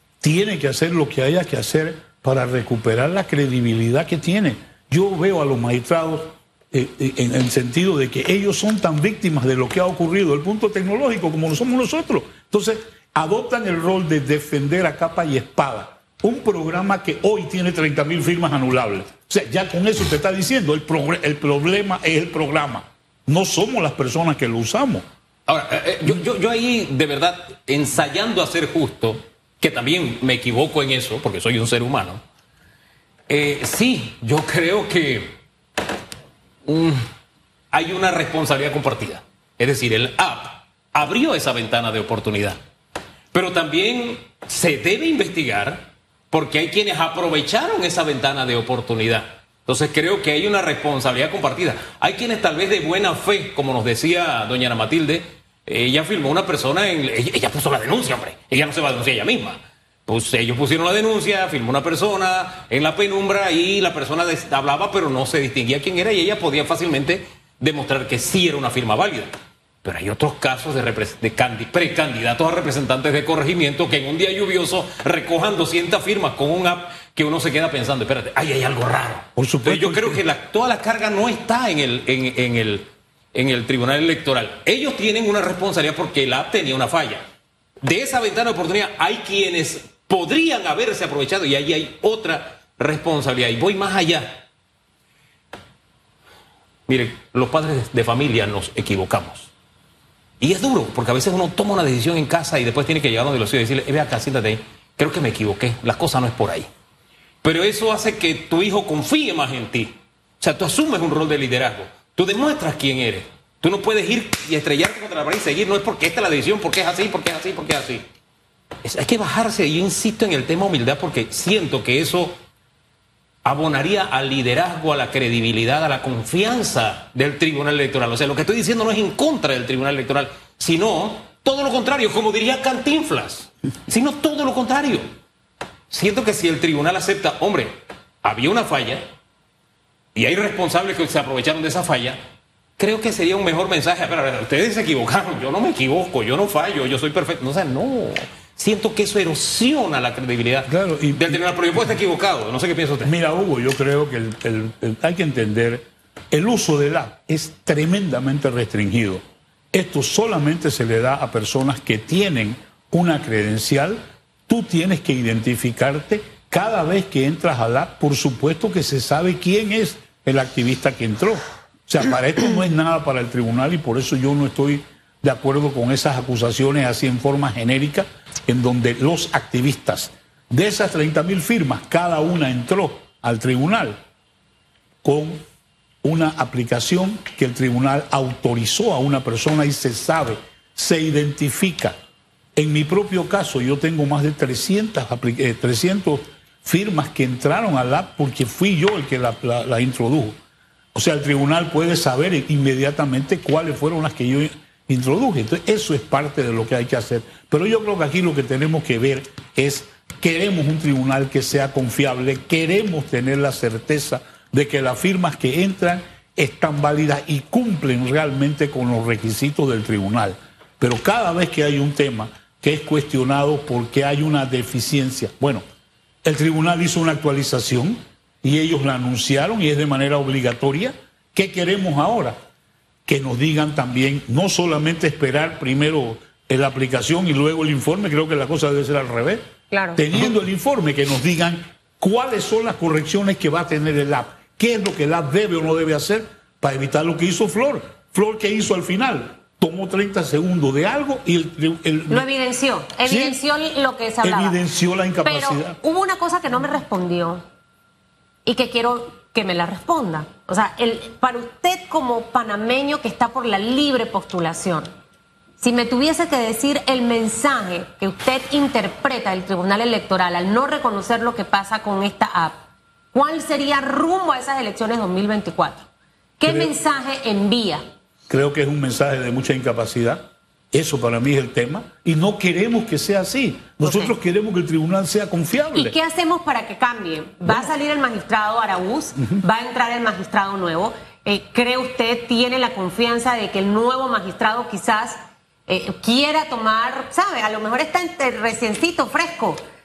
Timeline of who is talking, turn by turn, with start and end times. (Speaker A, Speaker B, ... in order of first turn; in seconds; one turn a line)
Speaker A: 0.2-25.0
Speaker B: 25.5-32.2
Speaker B: 33.3-35.4
Speaker B: 36.6-37.0
Speaker B: 37.7-42.6
Speaker B: 43.3-87.2
Speaker A: 79.3-80.2
Speaker B: 87.8-94.5
Speaker B: 96.9-99.5
Speaker B: 100.4-106.7
Speaker B: 107.4-118.0
Speaker B: 118.8-122.3
Speaker B: 123.4-135.1
Speaker B: 135.9-139.0
Speaker B: 140.1-142.2
Speaker B: 142.8-153.1
Speaker A: 150.7-151.4
Speaker A: 153.0-159.2
Speaker A: 159.7-184.0
Speaker A: 185.0-185.4
Speaker A: 186.0-191.9
Speaker A: 192.6-200.3
Speaker A: 200.9-225.6
Speaker A: 226.2-232.3
Speaker A: 233.1-239.4
Speaker C: 239.7-240.0
Speaker A: 239.9-252.2
Speaker C: 252.1-254.6
Speaker A: 253.0-253.4
Speaker A: 254.2-255.8
Speaker C: 255.2-257.4
Speaker C: 258.4-264.9
Speaker C: 265.6-272.6
Speaker C: 273.1-275.9
Speaker C: 276.4-277.8
Speaker A: 276.5-276.7
Speaker A: 278.3-285.9
Speaker C: 283.8-284.1
Speaker C: 285.7-299.6
Speaker A: 287.5-287.7